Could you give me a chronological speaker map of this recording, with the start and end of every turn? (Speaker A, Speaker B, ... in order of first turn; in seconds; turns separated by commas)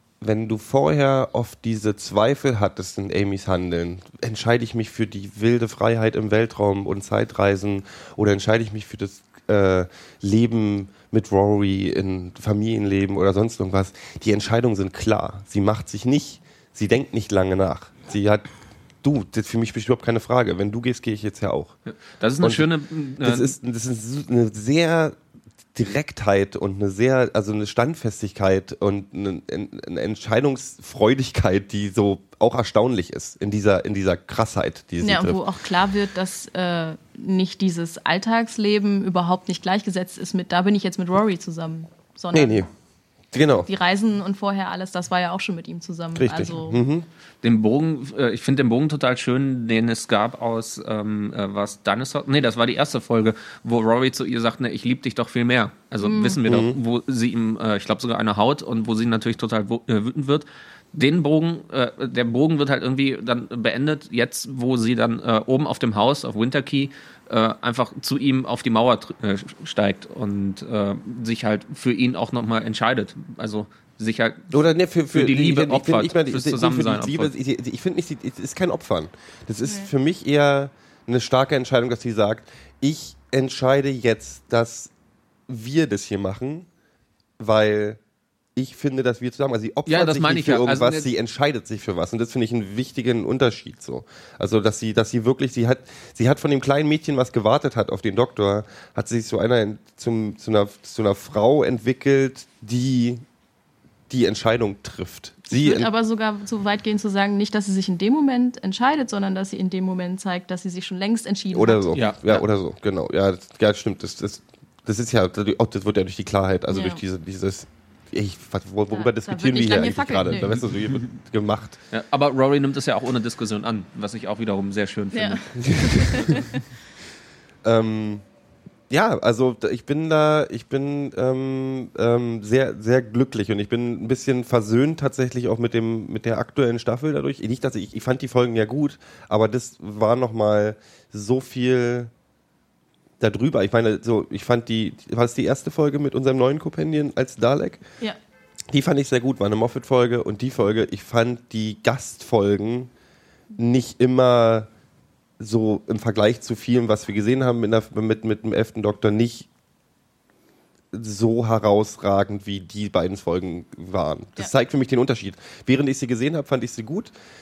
Speaker A: 0.2-18.4, Speaker A: 19.0-21.8, Speaker B: 21.9-23.5, Speaker A: 22.4-22.7, Speaker A: 23.2-25.2, Speaker A: 25.7-35.4, Speaker C: 35.0-42.7, Speaker A: 42.3-42.7, Speaker A: 43.3-43.7, Speaker C: 43.6-46.9, Speaker A: 46.1-47.0, Speaker B: 47.4-74.6, Speaker C: 56.0-56.4, Speaker A: 56.5-56.8, Speaker A: 74.5-84.9, Speaker B: 75.1-77.3, Speaker C: 79.6-79.9, Speaker A: 85.5-86.7, Speaker A: 87.4-88.0, Speaker A: 88.5-103.2, Speaker B: 89.8-91.1, Speaker A: 104.1-105.9, Speaker C: 105.5-111.9, Speaker A: 111.5-121.8, Speaker B: 111.9-112.4, Speaker C: 116.7-117.0, Speaker C: 118.9-120.7, Speaker B: 120.4-121.0, Speaker B: 121.9-126.4, Speaker C: 125.1-126.6, Speaker A: 125.6-126.3, Speaker A: 127.6-128.2, Speaker A: 128.9-142.1, Speaker A: 143.2-147.8, Speaker A: 148.7-152.9, Speaker A: 153.6-154.7, Speaker A: 155.4-159.5, Speaker A: 160.9-167.1